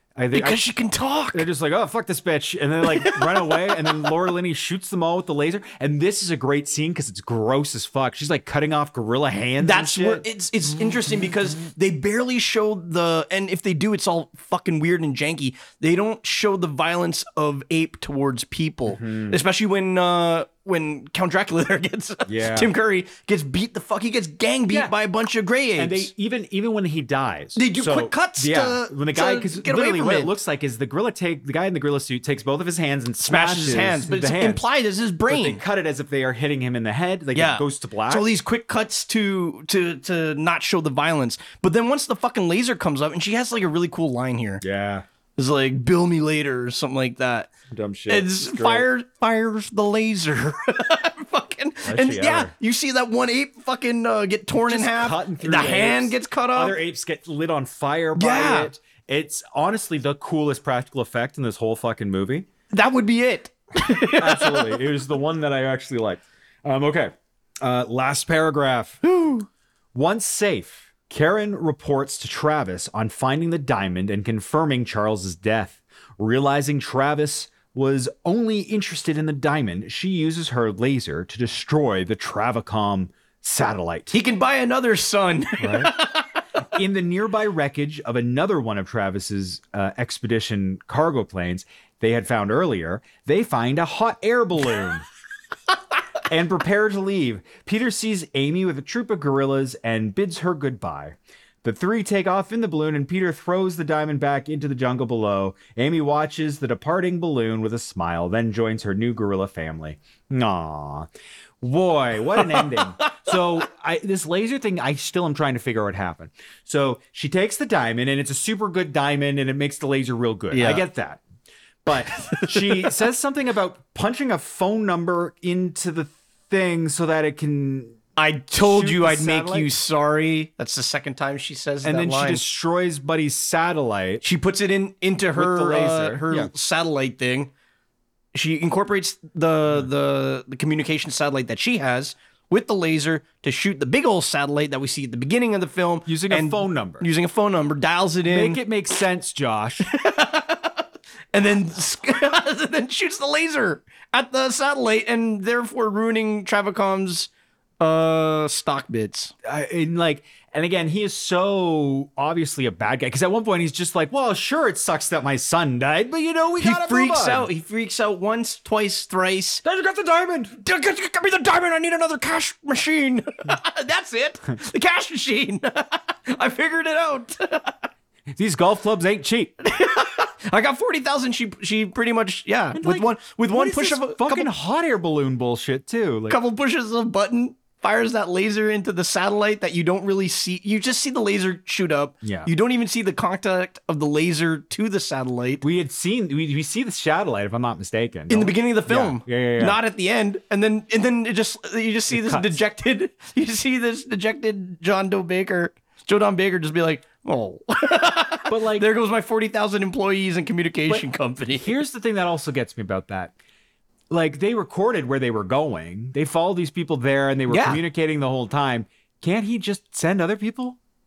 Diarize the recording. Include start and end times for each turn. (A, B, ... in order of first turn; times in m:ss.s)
0:00.2-0:00.6 A
0:00.3-0:01.4 B
0:01.3-0:10.2 A
0:02.9-0:03.8 B
0:09.6-0:26.1 B
0:18.9-0:19.4 A
0:22.3-0:22.7 A
0:25.8-0:34.6 A
0:27.5-0:30.3 B
0:33.2-0:35.6 B
0:35.3-0:38.3 A
0:37.3-0:44.6 B
0:44.6-0:45.0 A
0:45.4-0:47.5 B
0:47.7-0:48.8 A
0:48.1-0:56.8 B
0:51.8-0:52.5 A
0:54.7-1:02.5 A
0:58.2-0:58.7 B
1:02.7-1:04.8 B
1:04.1-1:09.0 A
1:09.0-1:09.4 B
1:09.9-1:24.1 A
1:24.1-1:26.3 B
1:25.6-1:25.9 A
1:26.7-1:35.1 A
1:36.3-1:51.1 A
1:51.6-2:01.2 A
1:52.4-1:53.3 B
2:00.5-2:00.8 B
2:01.8-2:08.0 A
2:01.9-2:03.0 B
2:08.2-2:12.4 B
2:08.6-2:09.7 A
2:11.8-2:14.2 A
2:14.2-2:17.5 B
2:15.3-2:16.5 A
2:18.3-2:28.6 B
2:26.1-2:27.1 A
2:28.3-2:29.8 A
2:29.8-2:39.3 B
2:39.4-2:47.5 A
2:46.6-2:49.6 B
2:49.6-2:50.6 A
2:50.6-2:57.9 B
2:58.3-2:59.5 A
2:59.6-3:04.5 B
3:02.7-3:06.4 A
3:06.3-3:15.6 B
3:12.2-3:12.5 A
3:15.6-3:19.8 A
3:18.3-3:31.7 B
3:22.1-3:22.6 A
3:28.5-3:28.9 A
3:30.9-3:33.3 A
3:34.1-3:40.8 A
3:37.5-3:37.8 B